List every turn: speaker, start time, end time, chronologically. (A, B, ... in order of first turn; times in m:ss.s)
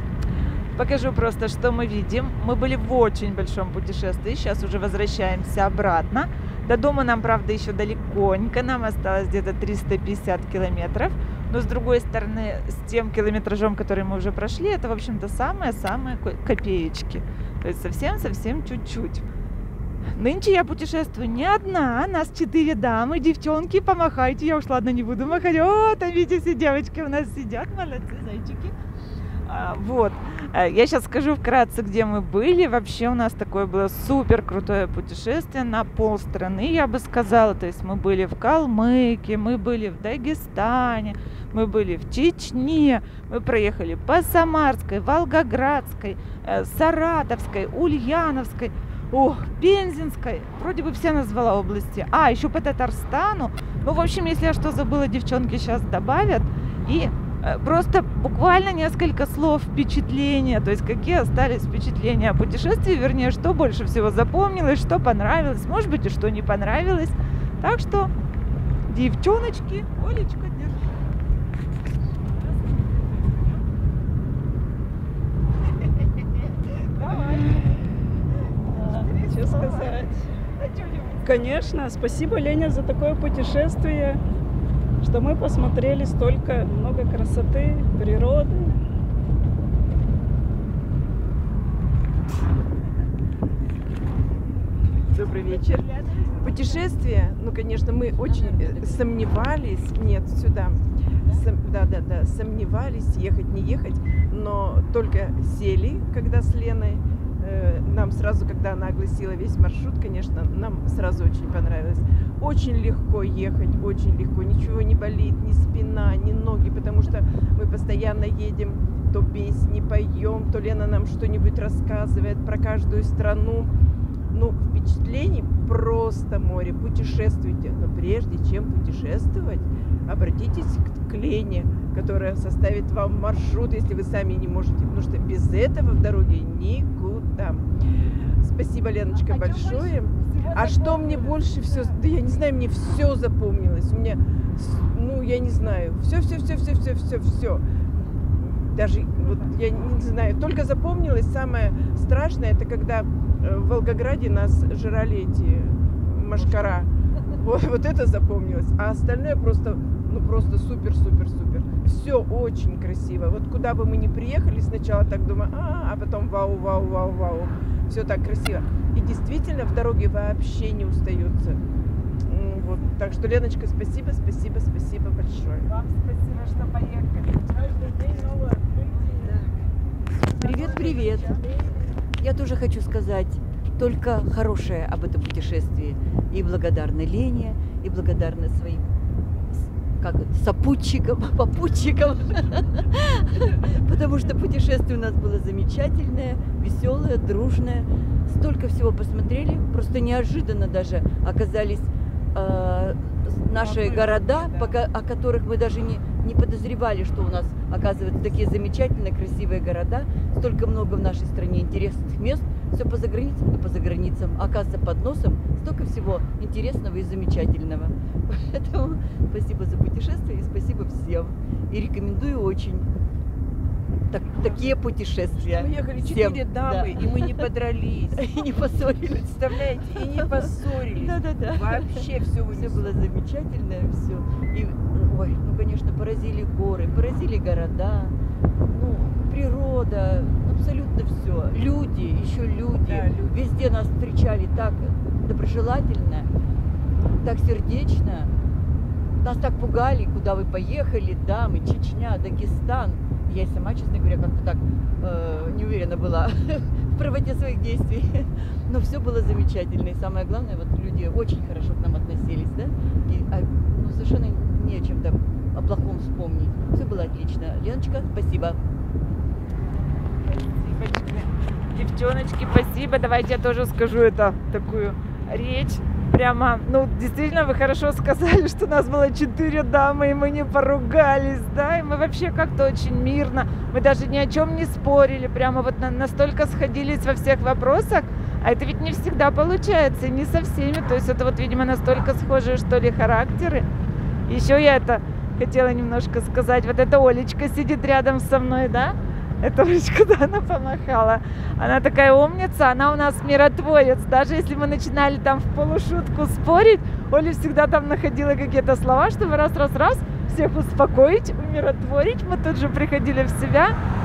0:00.8-0:19.3 A
0:20.2-0:28.8 A
0:29.5-1:08.1 A
1:08.9-1:11.0 A
1:12.3-1:13.6 A
1:16.7-1:17.9 A
1:18.7-1:20.0 A
1:19.3-1:20.3 B
1:20.6-1:21.6 A
1:21.2-1:24.2 B
1:25.0-1:28.8 B
1:35.1-2:03.7 C
1:38.2-1:39.3 D
2:04.3-2:17.7 C
2:18.4-2:27.6 C
2:28.4-2:51.6 C
2:36.5-2:36.8 D
2:52.2-2:55.8 C
2:55.8-2:57.6 A
2:57.5-2:59.4 B
3:00.3-3:01.6 D
3:02.2-3:08.9 D
3:10.0-3:42.9 D
3:23.8-3:24.2 C
3:44.1-3:47.5 D
3:44.5-3:44.8 C
3:45.3-3:48.5 C
3:48.1-3:49.4 D
3:49.0-3:53.0 C
3:50.0-3:58.2 D
3:58.7-4:06.3 D
4:02.9-4:03.4 C
4:07.2-4:08.3 D
4:09.2-4:28.6 D
4:30.3-4:53.7 A
4:54.3-5:13.8 A